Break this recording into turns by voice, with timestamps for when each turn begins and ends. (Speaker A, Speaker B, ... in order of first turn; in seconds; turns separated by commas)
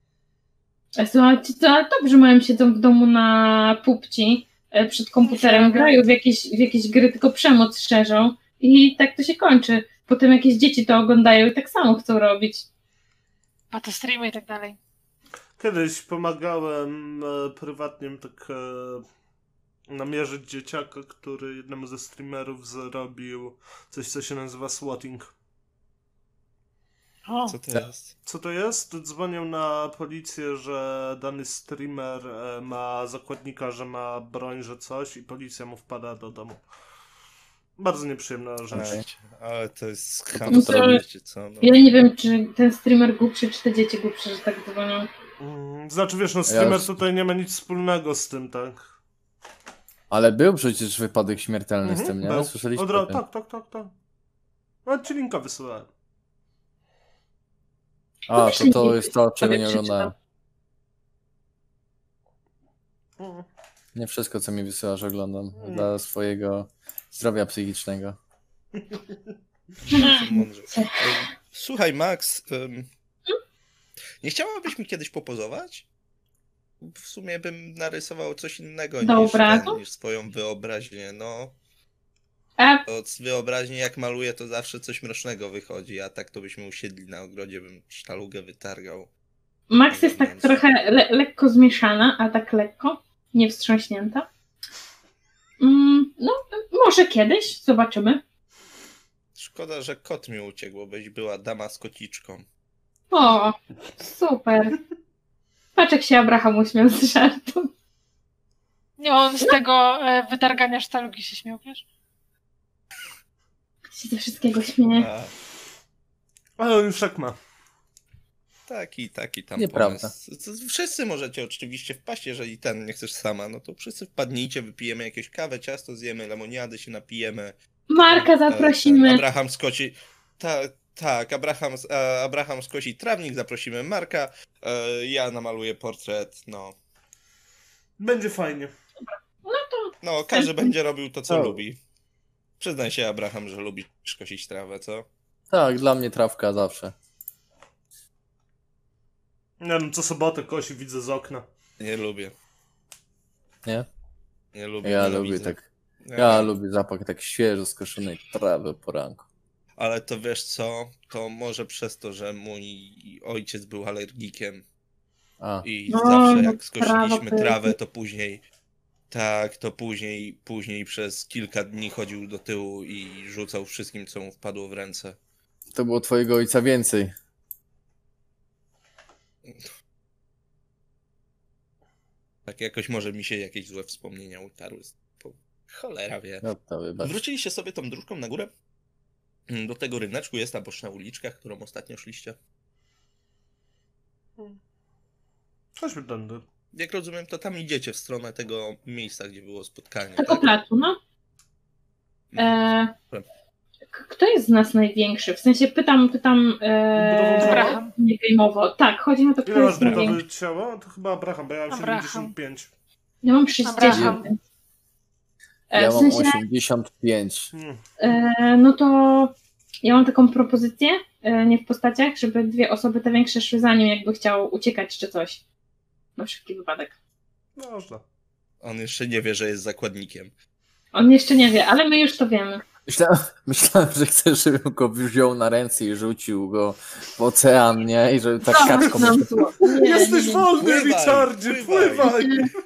Speaker A: 1.0-12.7, Speaker B: 5.2-6.0, Speaker B: 13.7-14.8, Speaker C: 15.6-19.1, Speaker C: 19.9-25.3, Speaker B: 27.3-27.6, Speaker D: 27.5-28.1, Speaker C: 28.2-36.6, Speaker C: 37.8-39.0, Speaker E: 38.7-39.0, Speaker D: 38.7-41.7, Speaker E: 40.4-41.0, Speaker A: 40.5-41.0, Speaker A: 41.6-45.1, Speaker C: 45.4-48.9, Speaker E: 46.5-47.0, Speaker E: 50.1-53.2, Speaker C: 51.8-53.9, Speaker C: 54.9-55.9, Speaker E: 58.3-60.1, Speaker A: 58.3-60.1, Speaker C: 63.2-63.5, Speaker E: 64.0-68.2, Speaker C: 65.6-65.9, Speaker C: 68.8-69.3, Speaker D: 69.8-72.9, Speaker A: 69.9-71.2, Speaker D: 74.2-75.9, Speaker D: 76.8-81.5, Speaker A: 79.0-79.8, Speaker A: 82.6-82.8, Speaker D: 82.9-89.1, Speaker A: 89.7-94.3, Speaker D: 89.9-90.7, Speaker A: 95.6-98.2, Speaker D: 99.4-102.5, Speaker A: 103.1-104.8, Speaker A: 105.8-107.7, Speaker B: 109.0-111.8, Speaker A: 114.0-115.1, Speaker D: 115.0-115.3, Speaker C: 116.6-117.4, Speaker D: 118.7-127.5, Speaker E: 119.6-120.1, Speaker A: 127.9-129.2, Speaker D: 128.1-136.8, Speaker C: 138.0-138.7, Speaker A: 139.4-140.7, Speaker D: 140.0-141.8, Speaker E: 141.3-141.6, Speaker D: 142.6-145.1, Speaker E: 145.5-146.9, Speaker C: 149.6-151.5, Speaker D: 151.8-152.3, Speaker D: 154.5-156.6, Speaker E: 154.8-159.3, Speaker D: 159.8-164.6, Speaker E: 165.4-165.7, Speaker D: 165.6-168.4, Speaker A: 165.9-167.7, Speaker D: 169.1-175.2, Speaker E: 175.7-177.1, Speaker D: 179.5-179.7, Speaker D: 182.5-186.4, Speaker E: 186.4-187.1, Speaker D: 187.0-188.5, Speaker D: 189.5-192.4, Speaker C: 195.8-196.4, Speaker D: 196.7-200.5, Speaker A: 200.2-201.0, Speaker D: 202.3-203.3, Speaker A: 202.4-202.9, Speaker A: 203.9-210.2, Speaker C: 206.9-207.9, Speaker B: 207.4-207.9, Speaker C: 209.4-212.7, Speaker B: 209.8-210.1, Speaker B: 211.7-212.3, Speaker A: 213.2-214.4, Speaker B: 213.7-214.3, Speaker E: 213.9-214.2, Speaker A: 215.7-216.4, Speaker E: 215.7-217.5, Speaker C: 217.5-217.8, Speaker A: 218.0-225.4, Speaker A: 226.2-226.9, Speaker C: 227.6-228.0, Speaker D: 228.6-230.3, Speaker A: 230.9-232.6, Speaker E: 232.9-239.5, Speaker A: 238.4-240.4, Speaker C: 238.7-242.5, Speaker D: 240.5-242.1, Speaker A: 242.1-242.4